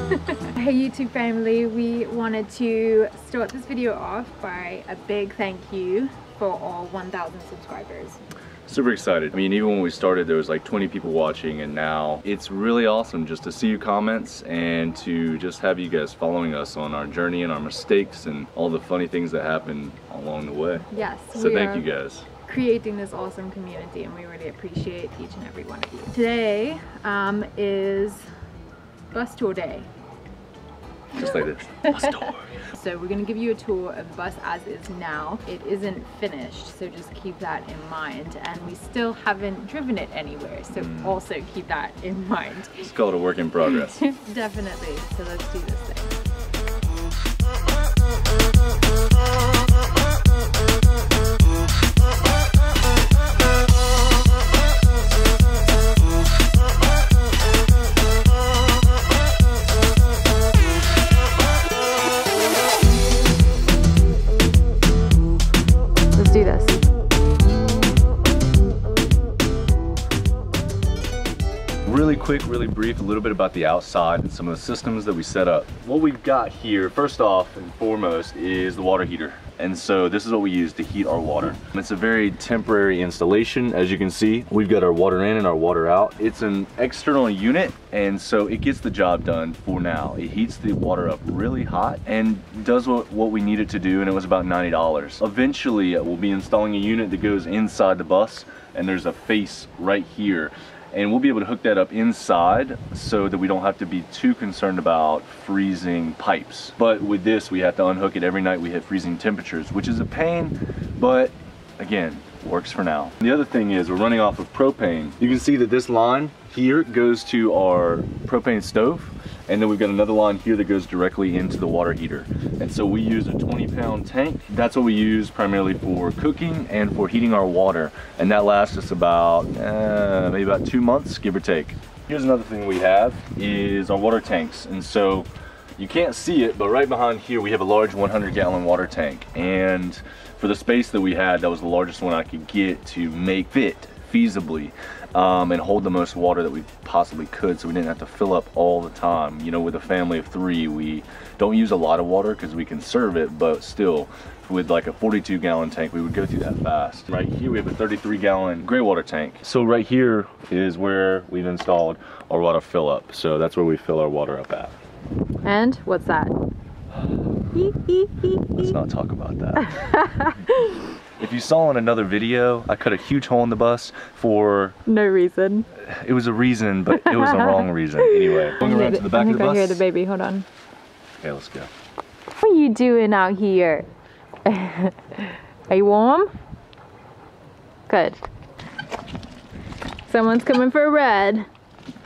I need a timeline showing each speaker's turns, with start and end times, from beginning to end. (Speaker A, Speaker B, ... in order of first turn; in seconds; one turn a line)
Speaker A: 0.3-8.2
Speaker B: 8.7-22.3
Speaker A: 20.9-21.9
Speaker A: 22.4-28.2
Speaker A: 29.1-29.9
Speaker B: 31.1-32.5
Speaker A: 31.2-42.9
Speaker B: 40.7-41.2
Speaker B: 42.8-44.0
Speaker A: 43.6-46.1
Speaker A: 66.2-66.8
Speaker B: 71.8-164.8
Speaker A: 165.4-166.4
Speaker A: 167.5-168.7
Speaker B: 168.6-169.9
Speaker A: 169.6-170.9
Speaker B: 171.2-174.8
Speaker A: 174.9-175.7
Speaker B: 175.8-179.8
Speaker A: 176.9-180.5
Speaker B: 181.2-181.7
Speaker A: 182.4-183.9
Speaker A: 184.4-186.3
Speaker A: 187.9-188.2
Speaker A: 190.1-191.5